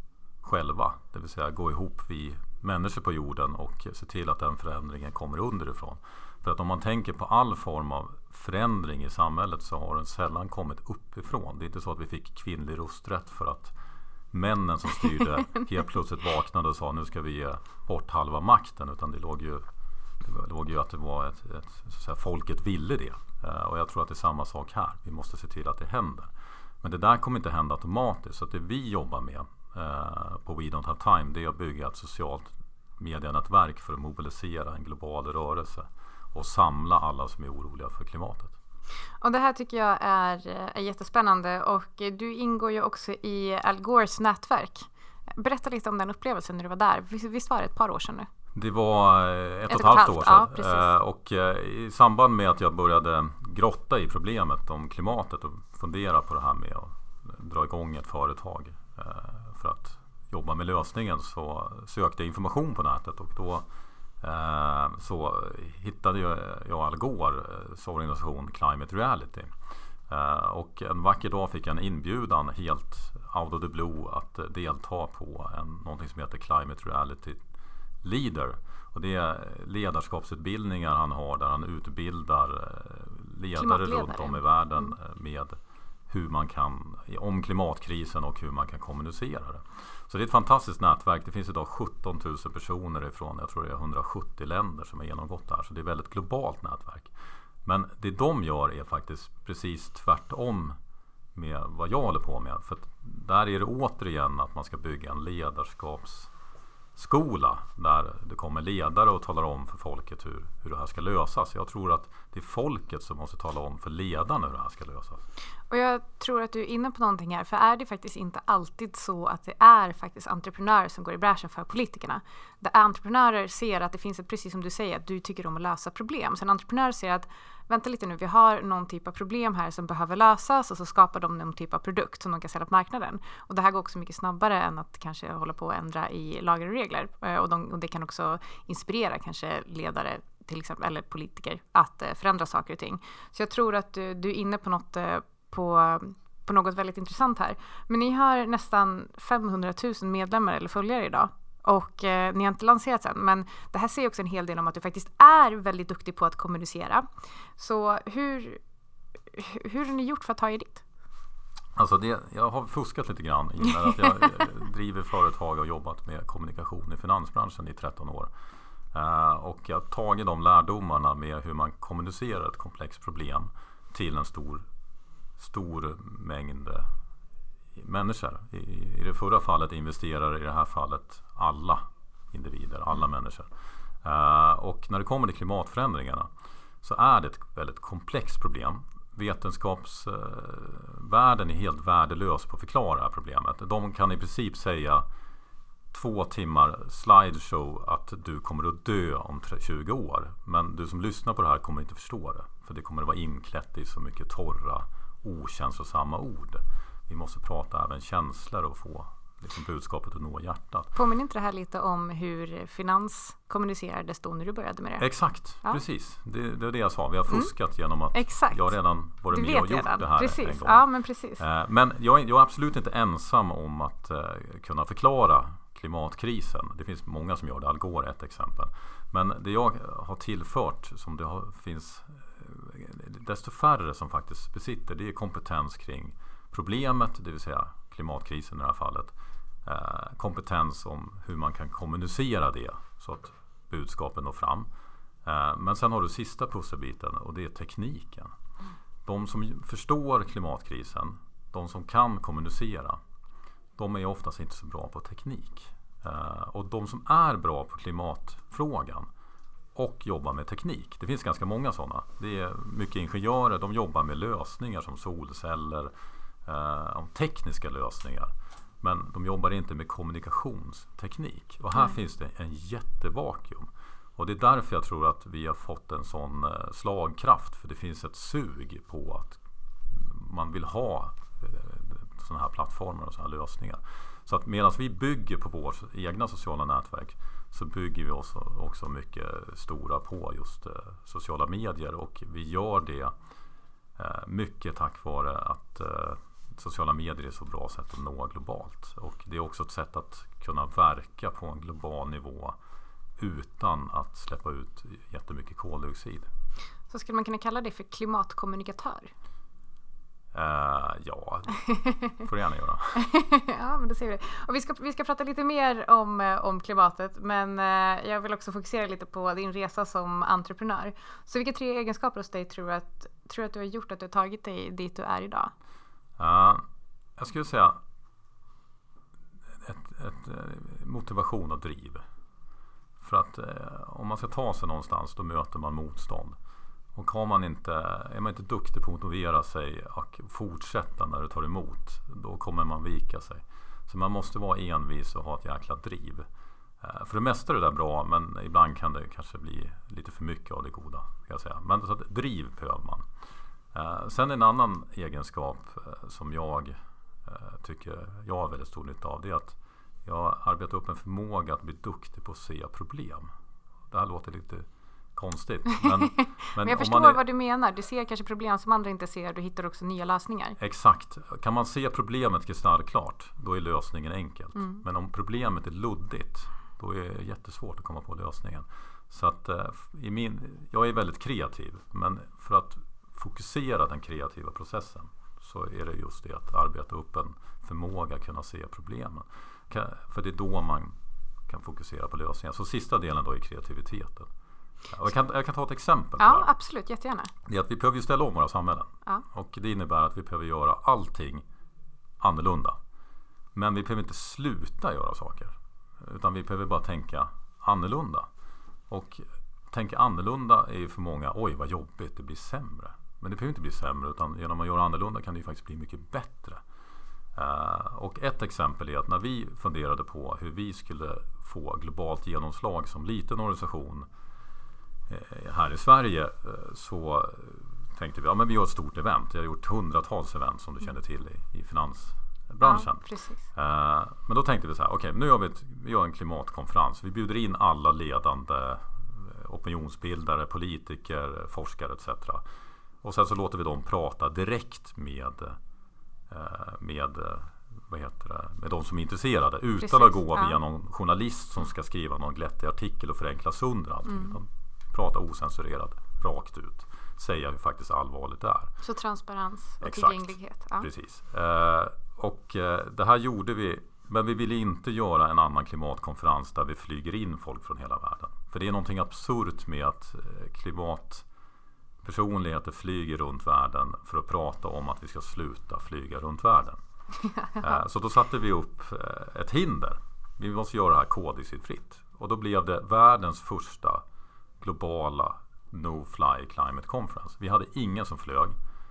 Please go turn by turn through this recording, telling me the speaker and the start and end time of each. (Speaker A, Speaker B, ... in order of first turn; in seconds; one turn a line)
Speaker A: 0.4-13.7
Speaker A: 14.3-19.6
Speaker A: 20.2-26.3
Speaker A: 26.8-38.5
Speaker B: 39.2-48.3
Speaker A: 48.5-63.6
Speaker B: 49.7-50.9
Speaker A: 64.2-69.5
Speaker A: 70.1-77.4
Speaker A: 78.0-85.5
Speaker B: 83.5-84.9
Speaker A: 86.1-97.1
Speaker A: 97.6-100.8
Speaker A: 101.3-106.3
Speaker A: 107.0-115.2
Speaker B: 115.7-157.0
Speaker B: 157.6-158.6
Speaker B: 159.3-160.8
Speaker A: 161.8-168.3
Speaker A: 168.9-174.6
Speaker A: 175.4-176.9
Speaker A: 177.7-183.5
Speaker A: 184.0-186.3
Speaker A: 186.8-195.0
Speaker A: 195.9-210.9
Speaker B: 210.9-215.1
Speaker A: 215.0-220.8
Speaker B: 218.1-218.8
Speaker B: 219.3-221.4
Speaker A: 221.4-239.1
Speaker A: 239.6-244.7
Speaker A: 245.2-248.3
Speaker A: 249.0-253.0
Speaker A: 253.8-259.1
Speaker A: 259.7-265.9
Speaker A: 266.4-279.4
Speaker A: 279.9-293.1
Speaker A: 294.0-302.5
Speaker A: 303.2-306.3
Speaker B: 306.9-309.1
Speaker A: 310.3-313.0
Speaker B: 312.9-325.5
Speaker A: 326.2-326.6
Speaker A: 327.2-327.8
Speaker A: 329.6-332.0
Speaker A: 333.0-336.4
Speaker A: 336.9-346.2
Speaker A: 346.8-353.0
Speaker A: 353.7-363.3
Speaker A: 363.9-367.2
Speaker B: 366.2-370.6
Speaker A: 370.6-390.9
Speaker A: 391.5-394.3
Speaker A: 394.9-396.5
Speaker B: 396.2-397.3
Speaker A: 397.4-401.4
Speaker A: 402.2-402.8
Speaker A: 403.5-408.3
Speaker A: 408.9-416.6
Speaker A: 417.3-424.1
Speaker A: 425.1-442.4
Speaker B: 432.6-433.4
Speaker A: 443.0-445.6
Speaker A: 446.3-458.7
Speaker B: 449.8-450.6
Speaker B: 454.1-454.4
Speaker B: 458.8-460.9
Speaker A: 459.8-471.2
Speaker A: 472.0-476.8
Speaker B: 477.2-477.8
Speaker A: 477.6-484.0
Speaker A: 484.6-488.5